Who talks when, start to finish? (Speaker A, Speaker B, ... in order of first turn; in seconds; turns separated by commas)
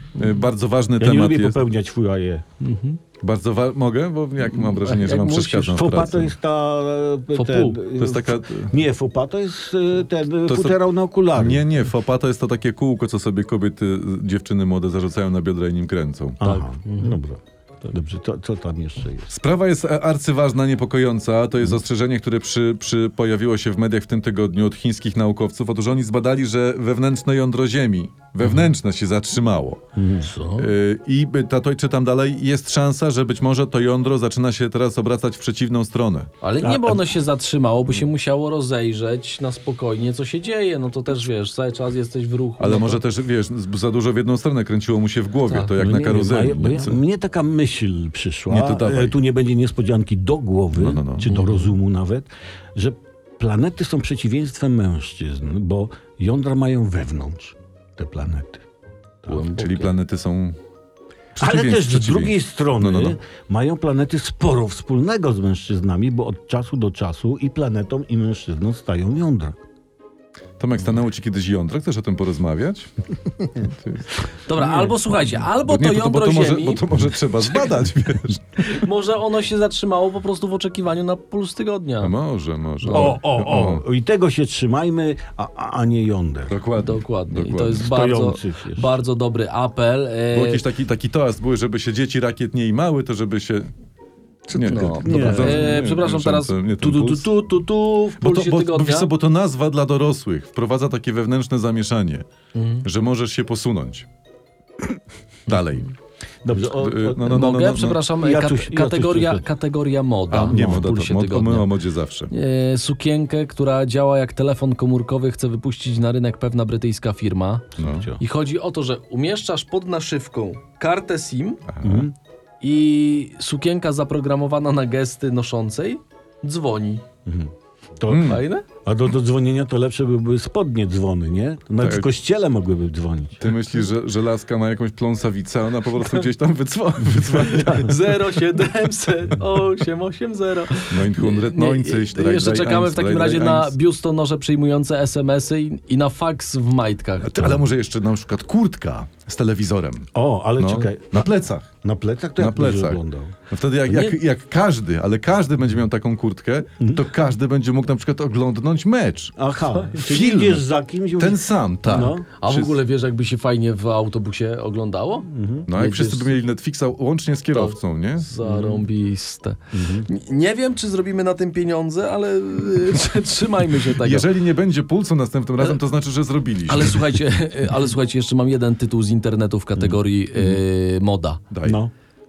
Speaker A: 0.1-1.6, Speaker B: 1.0-2.4, Speaker C: 2.6-3.0, Speaker A: 3.2-6.3, Speaker C: 4.5-5.9, Speaker B: 5.7-11.7, Speaker C: 7.3-7.8, Speaker A: 8.0-8.7, Speaker A: 10.5-16.6, Speaker B: 16.4-19.3, Speaker C: 16.4-17.2, Speaker A: 19.3-29.8, Speaker B: 29.9-30.3, Speaker C: 30.2-30.7, Speaker A: 30.6-36.3, Speaker C: 36.4-43.0, Speaker B: 36.6-37.1, Speaker A: 42.6-47.0, Speaker B: 45.8-58.6, Speaker A: 48.5-49.1, Speaker A: 50.7-51.3, Speaker C: 51.2-51.7, Speaker B: 59.2-59.5, Speaker C: 59.3-59.9, Speaker A: 59.6-60.5, Speaker A: 61.4-63.2, Speaker B: 61.4-69.6, Speaker A: 70.6-72.9, Speaker A: 73.4-74.2, Speaker C: 74.5-76.8, Speaker A: 75.5-78.8, Speaker C: 77.4-77.8, Speaker C: 78.6-82.1, Speaker A: 82.0-83.8, Speaker C: 82.8-83.2, Speaker B: 82.9-86.6, Speaker A: 86.5-87.9, Speaker C: 86.8-90.6, Speaker B: 87.8-89.0, Speaker A: 90.3-93.7, Speaker B: 94.5-95.8, Speaker A: 94.5-97.3, Speaker C: 94.6-99.1, Speaker A: 98.2-102.2, Speaker C: 102.5-102.8, Speaker A: 102.8-104.0, Speaker A: 105.5-105.9, Speaker B: 106.4-107.5, Speaker A: 106.6-108.0, Speaker C: 107.3-111.7, Speaker B: 108.2-109.5, Speaker A: 110.3-112.3, Speaker B: 110.4-110.9, Speaker C: 112.3-121.6, Speaker A: 117.8-118.1, Speaker B: 117.8-118.2, Speaker A: 121.7-122.1, Speaker B: 121.8-122.1, Speaker C: 122.6-127.0, Speaker B: 127.2-128.3, Speaker A: 128.1-128.4, Speaker C: 128.1-128.7, Speaker B: 128.8-133.5, Speaker A: 131.8-132.1, Speaker A: 133.4-137.9, Speaker C: 137.3-147.6, Speaker B: 137.6-137.9, Speaker A: 140.9-143.7, Speaker A: 147.2-151.7, Speaker B: 150.1-151.3, Speaker B: 151.8-153.3, Speaker A: 152.4-159.3, Speaker B: 153.9-154.1, Speaker B: 159.4-162.3, Speaker A: 159.9-160.6, Speaker A: 161.2-162.8, Speaker C: 162.4-166.4, Speaker B: 165.3-165.7, Speaker A: 165.7-168.3, Speaker C: 167.5-174.3, Speaker B: 168.4-168.8, Speaker B: 169.7-170.1, Speaker A: 173.8-177.0, Speaker C: 176.7-181.4, Speaker B: 179.8-180.6, Speaker A: 181.5-181.8, Speaker B: 181.6-181.9